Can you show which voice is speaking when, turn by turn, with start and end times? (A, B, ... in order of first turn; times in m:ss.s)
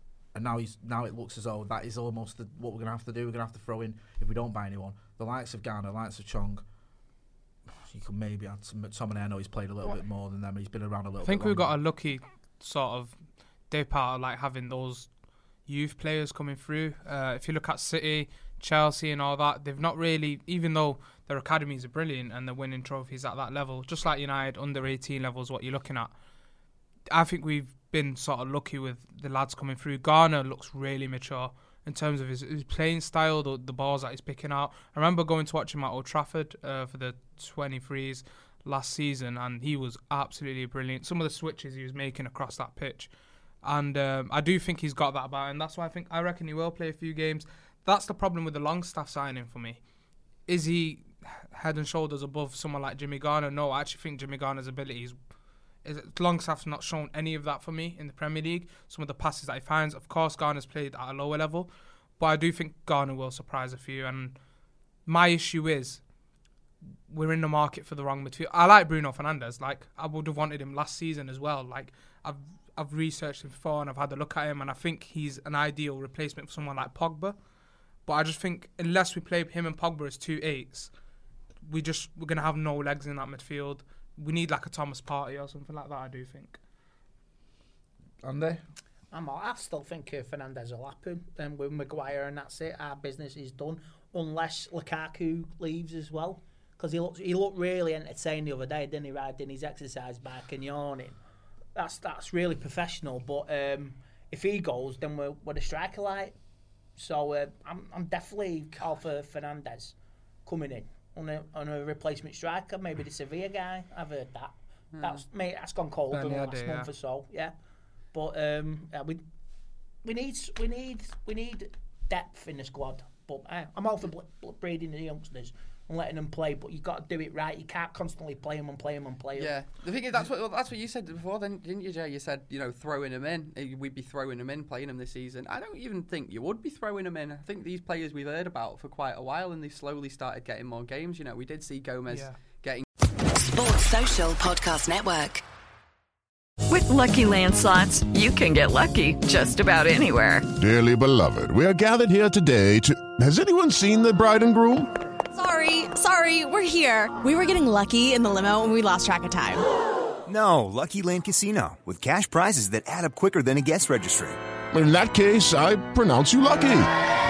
0:00.3-0:06.6 A
0:07.8-0:11.8 A
0:11.2-0:15.1 B
0:15.6-0:26.1 B
0:27.1-0:43.1 B
0:43.6-0:49.8 B
0:50.5-0:55.2 B
0:55.8-1:04.4 B
1:05.0-1:06.0 B
1:07.1-1:17.4 B
1:18.0-1:20.9 B
1:21.7-1:26.6 B
1:28.2-1:28.6 A
1:29.1-1:41.2 C
1:41.7-1:46.4 C
1:47.0-1:49.9 C
1:50.4-1:57.5 C
1:55.0-1:55.2 D
1:56.1-1:56.9 B
1:58.1-1:59.2 C
2:00.0-2:09.6 C
2:09.4-2:22.8 D
2:22.1-2:22.3 B
2:23.6-2:25.4 E
2:26.7-2:30.4 F
2:30.6-2:34.8 G
2:35.3-2:39.6 E
2:40.3-2:44.3 H
2:44.7-2:46.8 G